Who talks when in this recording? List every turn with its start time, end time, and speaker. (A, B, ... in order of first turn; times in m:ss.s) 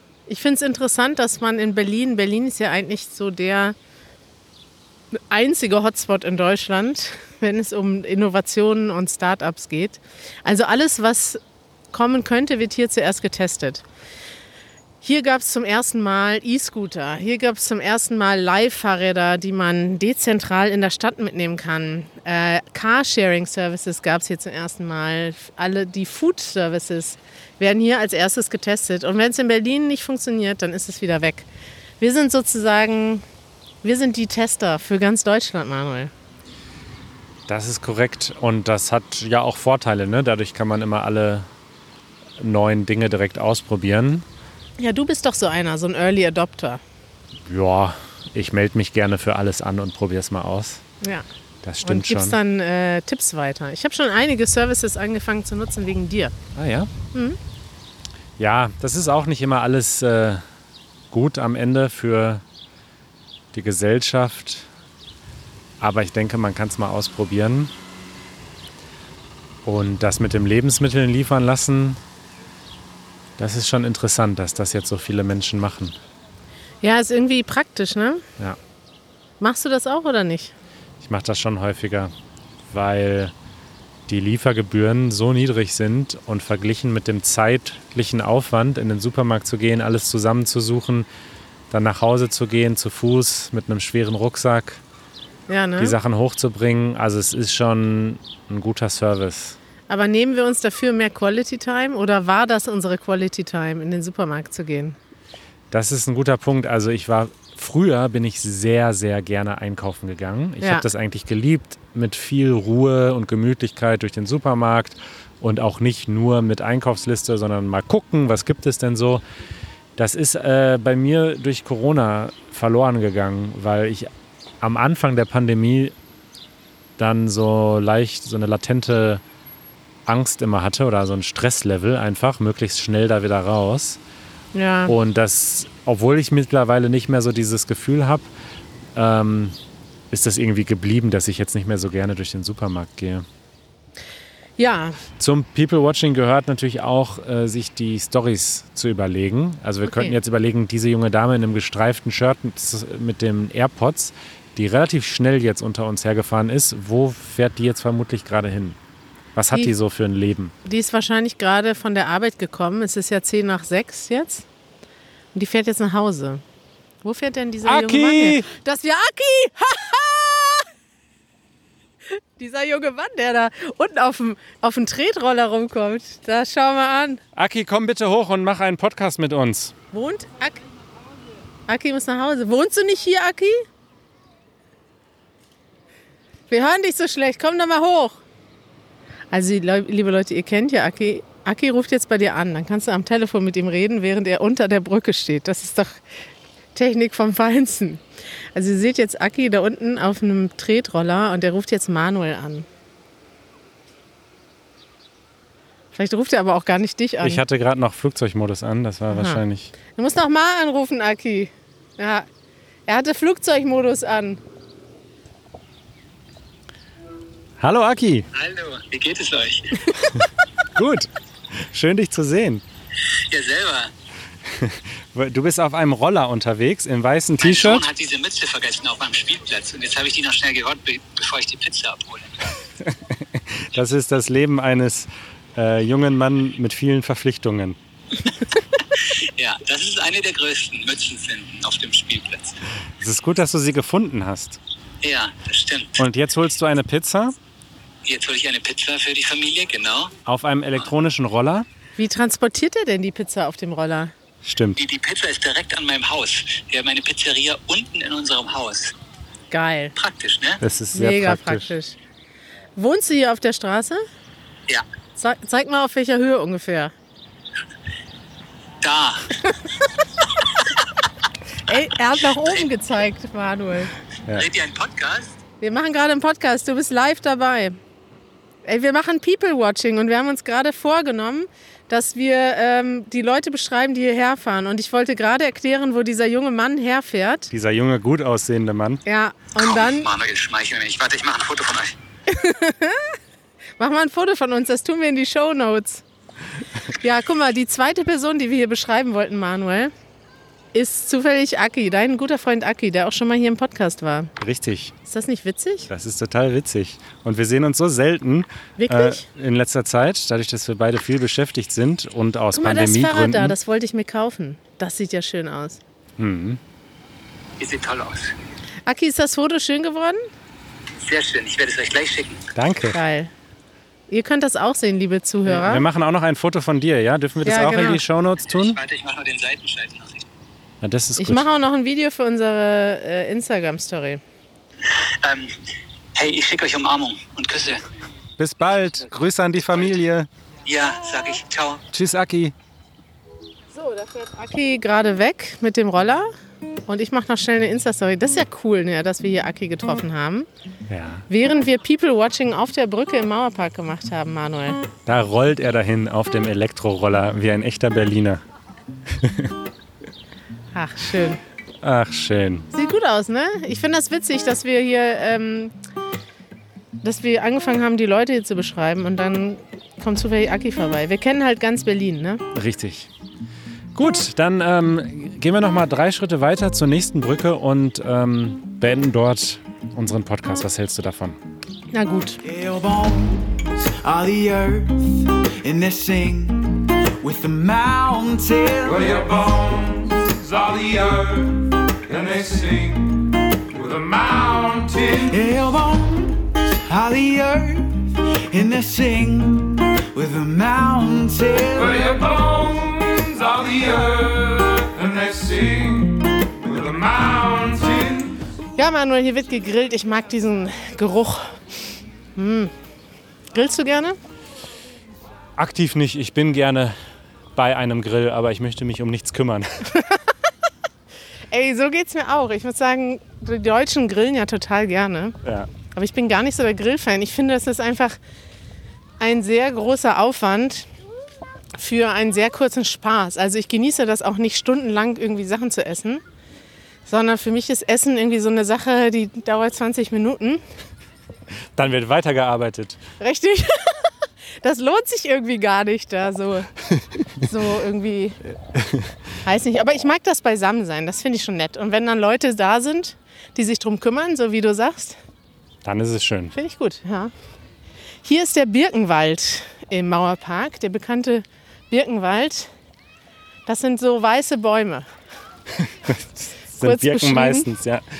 0:00.3-0:03.7 A
0:05.1-0:11.4 A
0:11.9-0:13.8 A
0:15.0-0:31.5 A
0:32.0-0:33.2 A
0:33.8-0:36.1 A
0:37.5-0:41.5 B
0:42.4-0:44.2 B
0:44.8-0:46.8 A
0:47.4-0:50.8 B
0:51.6-0:52.4 B
0:51.8-0:56.3 A
0:56.5-0:56.9 B
0:58.4-1:00.4 B
1:01.1-1:02.4 B
1:03.5-1:04.7 B
1:05.8-1:07.7 B
1:09.6-1:12.0 B
1:13.4-1:16.0 B
1:16.8-1:18.2 A
1:19.4-1:20.5 A
1:21.0-1:22.1 B
1:22.7-1:23.3 B
1:24.1-1:31.1 B
1:31.7-1:34.8 B
1:35.5-1:36.0 A
1:35.8-1:39.6 B
1:39.9-1:45.0 A
1:45.7-1:59.2 B
2:00.0-2:04.1 B
2:04.6-2:05.9 B
2:07.0-2:09.2 B
2:10.0-2:14.0 B
2:14.5-2:14.9 A
2:14.9-2:18.3 B
2:18.9-2:19.6 B
2:20.1-2:23.2 B
2:24.6-2:25.0 A
2:25.2-2:38.8 B
2:29.8-2:30.2 A
2:39.3-2:40.5 B
2:40.6-2:44.4 A
2:45.3-2:46.4 A
2:47.0-2:50.7 A
2:47.6-2:48.5 B
2:52.4-2:57.2 A
2:57.3-2:59.7 B
2:59.9-3:00.6 A
3:01.7-3:03.6 A
3:06.5-3:08.2 A
3:09.3-3:16.0 A
3:16.7-3:18.0 A
3:18.5-3:22.7 A
3:25.9-3:27.4 A
3:27.2-3:29.7 B
3:29.1-3:29.4 A
3:29.9-3:32.3 A
3:32.9-3:34.4 A
3:37.6-3:38.3 B
3:38.3-3:40.2 C
3:40.7-3:41.1 B
3:41.7-3:42.6 B
3:43.3-3:43.9 C
3:44.5-3:47.8 B
3:47.4-3:52.3 C
3:52.9-3:57.8 B
3:59.2-4:02.6 C
4:03.0-4:04.6 B
4:05.0-4:06.0 C
4:06.0-4:07.4 B
4:08.0-4:10.1 C
4:10.2-4:11.6 B
4:12.0-4:14.1 A
4:14.4-4:14.8 B
4:14.8-4:18.9 C
4:19.5-4:19.9 A
4:20.0-4:20.6 C
4:20.6-4:21.7 B
4:20.9-4:22.0 A
4:22.8-4:24.0 A
4:25.2-4:26.9 A
4:28.8-4:29.3 C
4:31.7-4:33.9 A
4:34.3-4:35.3 C
4:35.6-4:37.8 A
4:38.6-4:47.5 A
4:47.5-4:49.0 B
4:49.0-4:50.1 A
4:49.6-4:51.9 C
4:52.3-4:53.1 A
4:53.8-4:56.0 A
4:57.0-4:59.9 A
5:00.7-5:04.3 A
5:04.4-5:04.9 B
5:05.1-5:05.9 A
5:05.9-5:13.5 B
5:08.8-5:09.2 A
5:12.5-5:15.8 A
5:16.2-5:16.6 B
5:17.6-5:18.3 C
5:18.8-5:20.2 A
5:21.0-5:22.4 C
5:22.5-5:23.0 B
5:22.9-5:23.3 A
5:24.1-5:25.8 A
5:25.5-5:28.8 B
5:27.4-5:28.0 A
5:28.5-5:30.2 C
5:30.8-5:31.4 B
5:31.2-5:34.2 A
5:34.9-5:35.5 C
5:36.1-5:37.8 C
5:38.4-5:40.3 B
5:40.6-5:41.8 C
5:41.9-5:42.5 B
5:43.7-5:46.3 A
5:46.9-5:50.5 A
5:50.9-5:51.2 B
5:51.3-5:54.8 A
5:55.1-5:58.4 B
5:59.1-5:59.5 B
6:00.7-6:01.4 A
6:01.8-6:02.7 B
6:02.7-6:05.7 A
6:07.0-6:12.4 A
6:12.5-6:13.1 B
6:13.9-6:21.4 B
6:21.9-6:22.4 A
6:22.4-6:29.3 D
6:28.8-6:35.4 E
6:35.3-6:42.2 D
6:41.7-6:48.4 E
6:48.8-6:51.5 A
6:52.4-6:52.7 A
6:53.5-6:54.2 A
6:55.6-6:56.9 B
6:57.5-6:59.8 B
7:01.5-7:05.4 A
7:05.4-7:05.7 B
7:05.9-7:08.2 A
7:09.2-7:10.9 A
7:11.8-7:16.2 A
7:17.0-7:20.6 A
7:21.8-7:23.0 B
7:23.2-7:24.1 A
7:24.6-7:26.7 A
7:27.4-7:28.4 A
7:29.4-7:35.2 A
7:35.8-7:36.5 B
7:36.5-7:37.3 A
7:38.2-7:42.7 A
7:43.6-7:45.1 A
7:45.8-7:48.0 B
7:46.8-7:47.7 A